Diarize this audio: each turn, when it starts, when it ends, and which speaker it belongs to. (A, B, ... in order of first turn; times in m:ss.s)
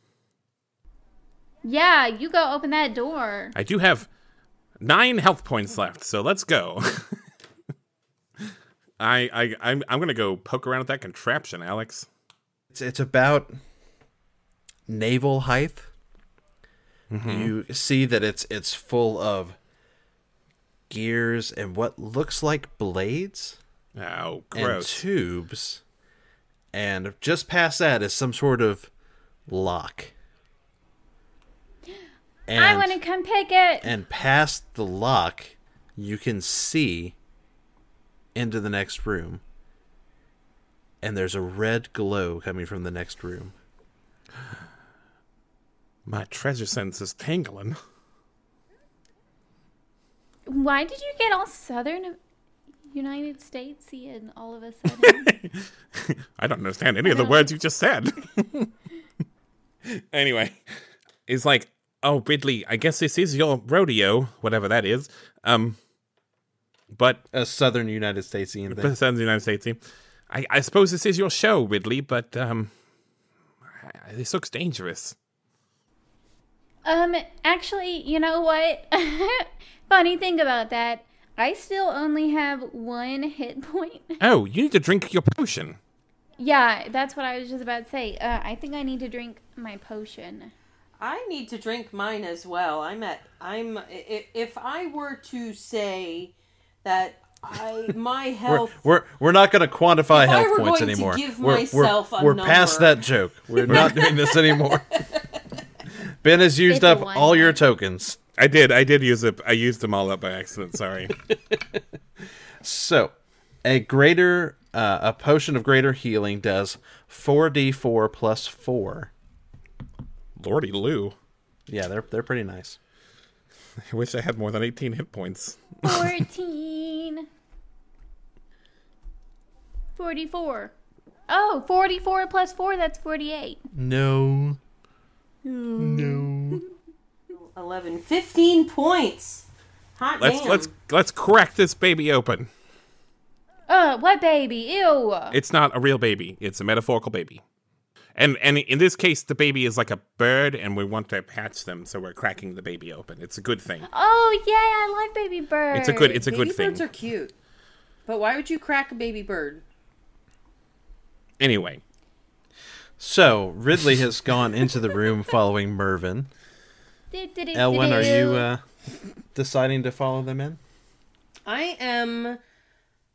0:01.6-0:03.5 A
0:03.5-0:04.1 B
0:04.8-0:07.2 B
0:09.0-0:12.1 B
0:12.7-0:13.5 C
0:14.9-0:15.9 C
0:17.1-0:17.5 B
0:17.2-0:19.6 C
0:20.9-0:23.6 C
0:24.0-0:25.0 B
0:24.5-0:25.8 C
0:26.7-0:28.9 C
0:29.5-0:30.1 C
0:32.5-0:33.0 C
0:32.5-0:33.9 A
0:33.8-0:37.1 C
0:38.3-0:39.4 C
0:41.0-0:43.5 C
0:46.0-0:47.8 B
0:50.4-0:52.2 A
0:52.9-0:55.3 A
0:55.0-0:58.7 B
0:57.0-0:57.5 A
0:59.8-1:00.6 B
1:01.3-1:05.8 B
1:06.9-1:07.2 B
1:07.3-1:08.9 C
1:08.7-1:09.8 B
1:10.3-1:12.7 B
1:13.8-1:15.1 B
1:16.8-1:24.2 A
1:24.2-1:25.8 B
1:26.4-1:30.5 A
1:31.0-1:38.8 D
1:38.4-1:45.0 C
1:40.1-1:43.0 D
1:43.5-1:45.4 D
1:43.7-1:44.0 B
1:46.2-1:48.2 C
1:46.7-1:47.6 A
1:48.4-1:51.1 B
1:52.6-1:59.1 C
2:00.4-2:01.2 B
2:01.7-2:02.8 C
2:03.9-2:06.2 B
2:05.8-2:07.2 A
2:10.0-2:10.7 A
2:11.3-2:13.6 A
2:13.7-2:14.6 C
2:15.4-2:16.6 A
2:15.8-2:16.6 C
2:17.3-2:20.7 D
2:20.2-2:22.5 B
2:23.7-2:25.4 A
2:25.3-2:27.4 B
2:28.2-2:33.9 B
2:33.8-2:36.2 A
2:35.7-2:36.8 B
2:36.2-2:37.3 D
2:38.0-2:39.6 D
2:41.4-2:41.8 B
2:43.0-2:46.3 C
2:47.1-2:48.5 A
2:47.5-2:48.6 C
2:49.3-2:50.6 C
2:51.4-2:52.4 D